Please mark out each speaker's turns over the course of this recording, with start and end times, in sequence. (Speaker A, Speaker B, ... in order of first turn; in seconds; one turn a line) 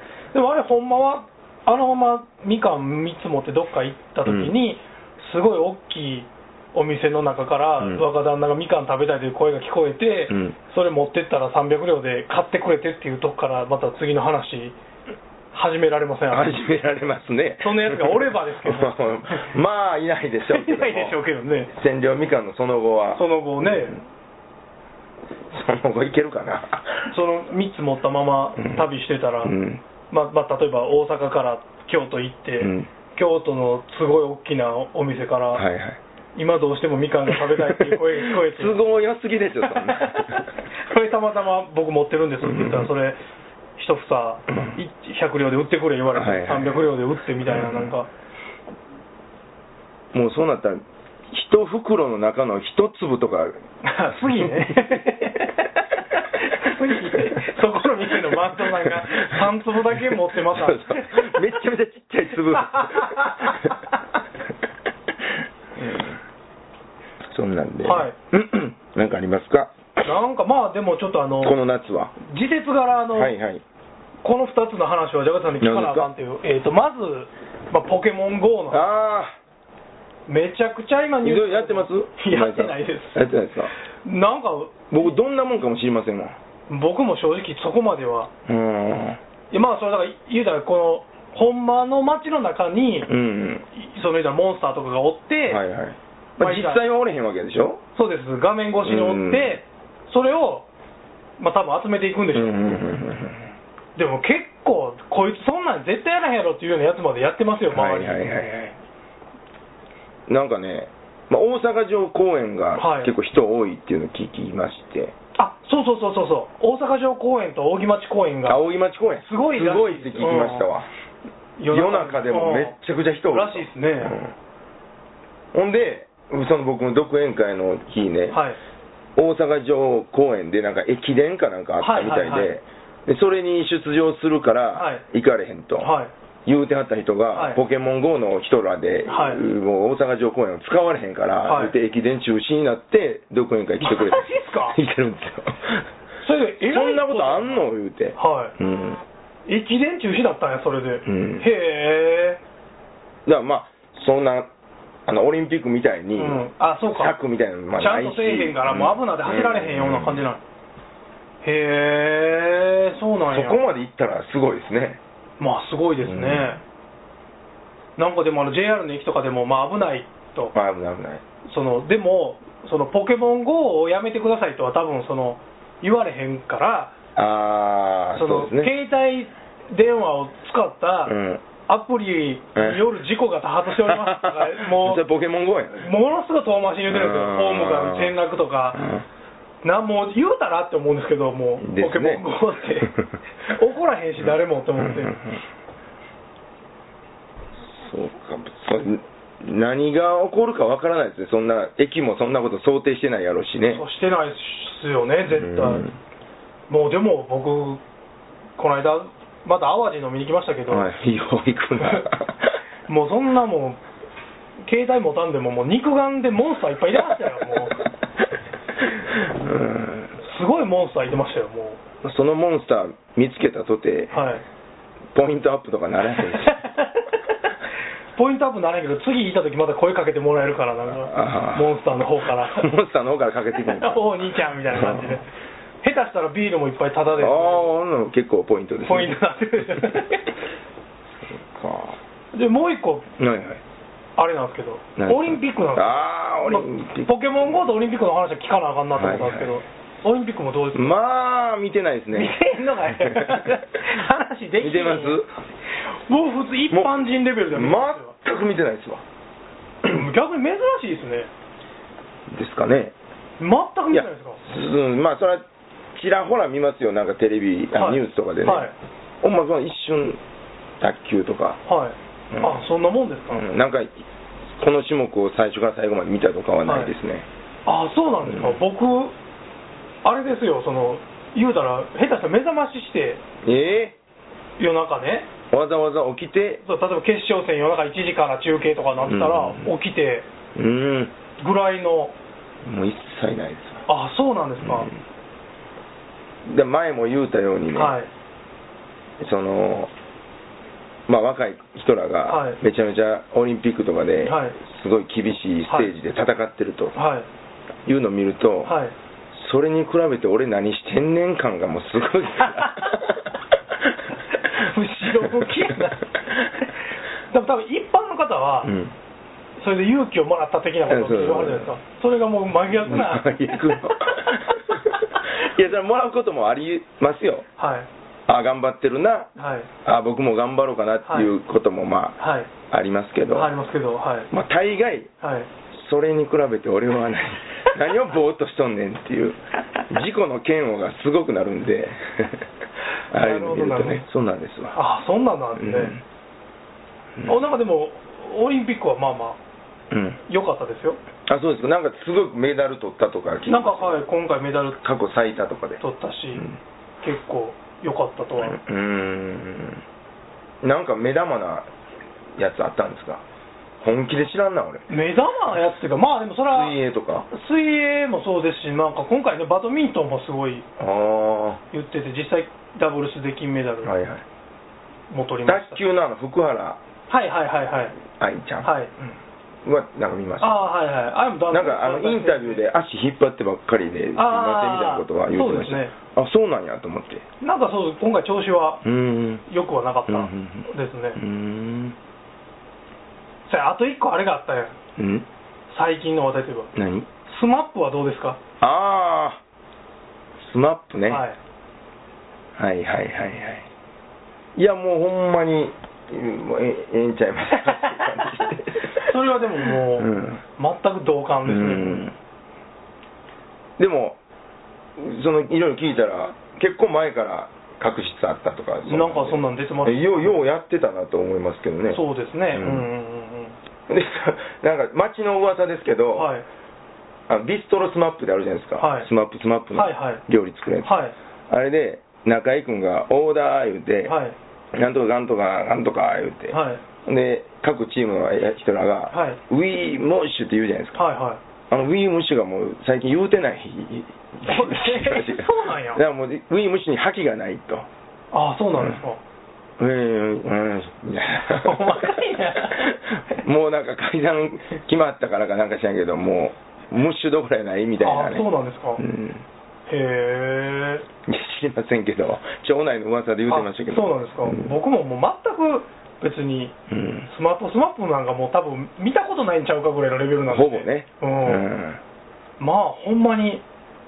Speaker A: 0.3-14.8
Speaker B: 4.2-4.5
Speaker B: 7.8-8.1
Speaker B: 10.3-10.6
Speaker A: 15.5-16.5
Speaker B: 16.3-21.2
Speaker A: 17.6-19.5
Speaker A: 20.5-21.7
Speaker B: 21.7-23.2
Speaker A: 23.1-24.0
Speaker B: 25.5-27.1
Speaker A: 27.1-29.5
Speaker B: 28.6-28.9
Speaker B: 29.4-29.8
Speaker A: 30.1-35.6
Speaker B: 32.6-32.9
Speaker B: 35.5-36.0
Speaker A: 36.4-38.8
Speaker B: 37.3-40.5
Speaker A: 39.7-43.2
Speaker B: 42.4-42.9
Speaker A: 43.8-48.1
Speaker B: 44.5-44.8
Speaker B: 46.1-46.8
Speaker B: 47.5-47.9
Speaker B: 50.1-53.6
Speaker A: 53.8-61.3
Speaker B: 54.1-55.0
Speaker B: 56.7-57.5
Speaker B: 58.1-63.8
Speaker A: 62.5-64.0
Speaker B: 65.8-66.2
Speaker B: 67.3-69.8
Speaker A: 67.8-68.1
Speaker A: 70.0-71.5
Speaker B: 71.4-72.1
Speaker A: 72.2-73.3
Speaker B: 73.1-73.6
Speaker A: 74.2-79.0
Speaker B: 75.6-76.1
Speaker B: 78.7-79.3
Speaker A: 80.3-83.3
Speaker B: 81.2-83.7
Speaker A: 84.0-84.9
Speaker B: 84.9-86.3
Speaker A: 86.7-88.3
Speaker B: 88.5-89.2
Speaker A: 89.5-93.1
Speaker B: 93.1-93.7
Speaker A: 93.7-95.6
Speaker B: 95.5-97.8
Speaker A: 96.4-96.8
Speaker A: 98.0-100.7
Speaker B: 98.8-99.6
Speaker A: 101.4-103.0
Speaker B: 102.3-103.4
Speaker A: 104.0-108.8
Speaker B: 107.7-108.7
Speaker B: 110.3-115.1
Speaker A: 112.8-113.1
Speaker A: 115.4-118.6
Speaker B: 118.5-120.9
Speaker A: 119.2-120.7
Speaker A: 121.6-122.7
Speaker B: 121.7-124.3
Speaker A: 123.3-124.2
Speaker B: 125.5-128.4
Speaker A: 128.3-128.6
Speaker B: 129.2-135.9
Speaker A: 131.8-132.5
Speaker A: 134.8-135.0
Speaker A: 135.8-136.1
Speaker B: 136.4-145.9
Speaker A: 137.3-137.6
Speaker A: 139.1-139.4
Speaker A: 141.4-141.7
Speaker A: 143.8-144.8
Speaker A: 146.2-147.6
Speaker B: 146.6-149.0
Speaker A: 148.2-148.5
Speaker A: 149.5-152.4
Speaker B: 151.0-151.4
Speaker B: 153.2-154.5
Speaker B: 155.1-160.2
Speaker A: 156.2-157.1
Speaker A: 157.8-160.4
Speaker A: 161.4-163.6
Speaker B: 163.3-165.0
Speaker A: 165.4-166.6
Speaker B: 166.0-166.6
Speaker A: 168.0-170.5
Speaker B: 170.5-171.2
Speaker A: 171.4-176.9
Speaker B: 177.1-178.7
Speaker A: 178.2-181.1
Speaker B: 181.1-181.4
Speaker A: 181.7-185.1
Speaker B: 182.5-182.8
Speaker B: 183.7-185.9
Speaker A: 185.8-188.9
Speaker B: 186.9-188.2
Speaker B: 188.7-189.0
Speaker A: 189.6-192.9
Speaker B: 191.6-193.2
Speaker A: 193.4-195.2
Speaker B: 194.8-195.3
Speaker B: 197.6-203.8
Speaker A: 203.7-205.8
Speaker B: 205.3-206.0
Speaker A: 206.7-207.8
Speaker A: 208.6-210.9
Speaker B: 210.7-212.6
Speaker A: 212.9-213.8
Speaker A: 214.6-217.8
Speaker B: 219.1-220.1
Speaker A: 220.2-221.8
Speaker B: 222.0-224.2
Speaker A: 224.1-224.4
Speaker B: 225.1-226.6
Speaker A: 226.4-227.1
Speaker A: 228.2-232.7
Speaker B: 231.0-231.8
Speaker B: 232.4-234.1
Speaker A: 233.6-235.2
Speaker B: 234.7-235.2
Speaker A: 235.8-237.7
Speaker B: 237.2-239.2
Speaker A: 238.8-240.3
Speaker B: 241.3-242.0
Speaker A: 242.3-243.1
Speaker B: 243.2-243.6
Speaker A: 244.2-250.9
Speaker B: 245.0-247.1
Speaker B: 248.9-249.5
Speaker B: 250.7-253.6
Speaker A: 252.1-255.2
Speaker B: 254.6-255.3
Speaker A: 255.8-258.1
Speaker B: 256.7-259.0
Speaker A: 259.8-261.3
Speaker B: 262.3-262.9
Speaker A: 263.4-264.4
Speaker B: 263.9-268.7
Speaker A: 267.8-268.7
Speaker B: 269.2-270.2
Speaker B: 270.8-271.6
Speaker A: 271.7-273.4
Speaker B: 272.3-272.6
Speaker B: 273.3-273.9
Speaker B: 274.6-277.3
Speaker A: 276.6-276.9
Speaker A: 277.6-279.1
Speaker B: 278.2-278.6
Speaker A: 280.0-283.2
Speaker B: 283.4-283.9
Speaker A: 284.6-285.3
Speaker B: 285.5-286.6
Speaker A: 286.6-290.3
Speaker B: 289.0-289.7
Speaker B: 290.5-291.1
Speaker A: 291.4-292.1
Speaker B: 292.6-293.8
Speaker A: 293.9-294.9
Speaker B: 294.6-294.9
Speaker B: 296.4-297.9
Speaker A: 297.7-298.1
Speaker B: 299.2-299.9
Speaker B: 301.1-306.9
Speaker A: 302.3-302.6
Speaker A: 304.2-304.6
Speaker A: 306.9-307.2
Speaker B: 307.9-308.7
Speaker A: 308.6-308.9
Speaker B: 309.3-314.1
Speaker A: 312.6-312.9
Speaker A: 314.3-316.8
Speaker B: 315.1-315.9
Speaker A: 317.3-318.7
Speaker B: 318.6-318.9
Speaker A: 319.6-324.4
Speaker B: 320.9-321.8
Speaker B: 322.7-327.4
Speaker A: 327.6-327.9
Speaker B: 328.3-329.3
Speaker A: 329.4-329.7
Speaker B: 329.8-332.2
Speaker A: 331.1-331.3
Speaker A: 332.2-332.5
Speaker B: 332.7-333.5
Speaker A: 333.3-334.3
Speaker B: 334.3-335.1
Speaker A: 335.2-335.5
Speaker B: 335.7-342.5
Speaker B: 343.1-344.8
Speaker A: 343.1-344.0
Speaker A: 344.7-345.9
Speaker B: 345.6-346.0
Speaker A: 347.2-349.4
Speaker B: 349.9-350.2
Speaker A: 350.3-351.0
Speaker B: 351.3-354.0
Speaker A: 353.5-354.8
Speaker B: 354.8-355.8
Speaker A: 355.8-356.4
Speaker A: 357.0-358.6
Speaker B: 358.4-359.8
Speaker B: 360.6-361.7
Speaker B: 362.4-363.2
Speaker B: 363.8-364.8
Speaker A: 364.9-366.7
Speaker B: 366.5-367.3
Speaker A: 367.3-370.6
Speaker B: 370.8-371.6
Speaker A: 371.7-373.9
Speaker B: 373.8-374.2
Speaker A: 375.1-375.8
Speaker B: 375.4-376.8
Speaker A: 377.1-378.0
Speaker B: 378.2-378.7
Speaker A: 378.6-378.9
Speaker B: 379.6-380.6
Speaker A: 380.4-382.6
Speaker B: 381.5-387.2
Speaker A: 384.1-385.9
Speaker A: 387.4-388.8
Speaker B: 388.8-389.4
Speaker A: 389.5-391.2
Speaker B: 390.1-392.0
Speaker A: 393.4-394.7
Speaker B: 395.0-395.3
Speaker A: 395.7-396.7
Speaker B: 396.7-397.1
Speaker A: 397.2-398.4
Speaker B: 398.6-399.4
Speaker B: 400.4-401.2
Speaker A: 401.1-401.4
Speaker B: 402.6-403.7
Speaker B: 404.6-409.1
Speaker A: 409.0-412.1
Speaker B: 409.6-410.4
Speaker B: 411.4-412.1
Speaker B: 413.8-414.2
Speaker B: 415.0-422.9
Speaker A: 418.9-420.4
Speaker A: 421.9-423.6
Speaker B: 423.9-426.3
Speaker A: 426.1-426.4
Speaker B: 427.3-430.9
Speaker A: 428.8-429.1
Speaker A: 429.7-430.2
Speaker A: 430.8-431.1
Speaker B: 431.5-434.2
Speaker A: 434.1-434.3
Speaker B: 434.7-441.0
Speaker A: 436.5-436.8
Speaker A: 439.1-439.4
Speaker A: 440.9-441.4
Speaker B: 441.7-447.9
Speaker A: 444.4-446.0
Speaker A: 448.3-449.2
Speaker B: 449.8-458.5
Speaker A: 451.5-452.9
Speaker A: 458.0-459.0
Speaker B: 459.0-459.4
Speaker A: 459.9-461.0
Speaker B: 461.2-464.7
Speaker A: 463.5-466.7
Speaker B: 466.9-467.3
Speaker A: 467.3-471.7
Speaker B: 470.5-472.0
Speaker A: 472.6-473.6